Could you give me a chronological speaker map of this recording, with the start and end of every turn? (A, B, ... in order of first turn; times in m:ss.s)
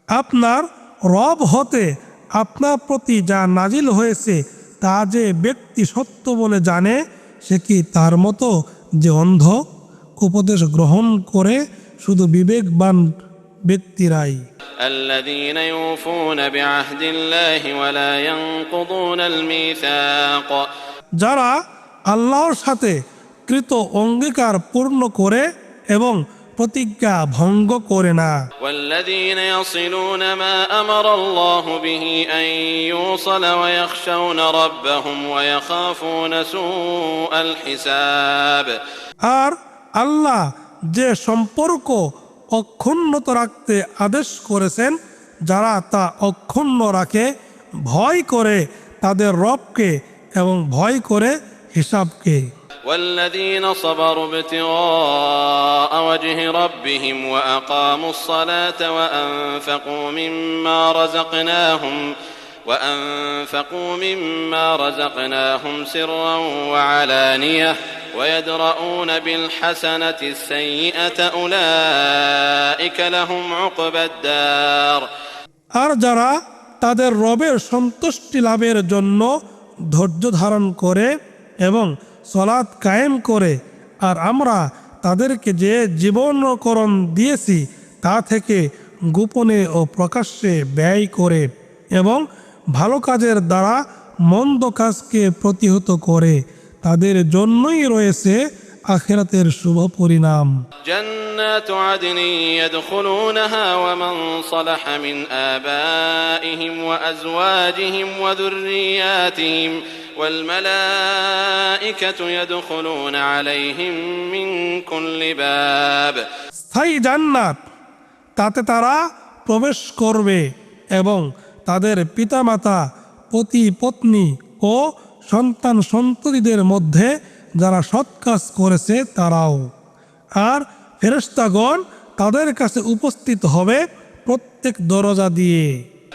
0:00.2-0:01.8 A
0:02.4-0:08.5 A
0:09.0-0:09.6 A
0:10.2-0:13.0 A
0:13.7-0:14.4 A
0:14.8-0:20.7 B
0:21.2-0:21.5 A
0:22.1-0:23.0 A
0:23.5-0:28.3 A
0:28.6-0:38.8 B
0:39.3-0:40.4 A
0:40.9-0:42.0 A
0:42.6-0:44.9 A
0:45.5-0:47.3 A
0:47.9-0:52.4 A
0:52.8-1:02.1 B
1:02.6-1:15.0 B
1:15.8-1:19.3 A
1:19.9-1:21.1 A
1:21.6-1:23.5 A
1:24.0-1:28.6 A
1:29.1-1:31.4 A
1:32.7-1:33.8 A
1:34.3-1:38.4 A
1:38.9-1:40.5 A
1:40.9-1:56.2 B
1:56.6-1:57.6 A
1:58.4-2:00.4 A
2:01.0-2:02.8 A
2:03.3-2:07.1 A
2:07.6-2:09.6 A
2:10.4-2:15.7 A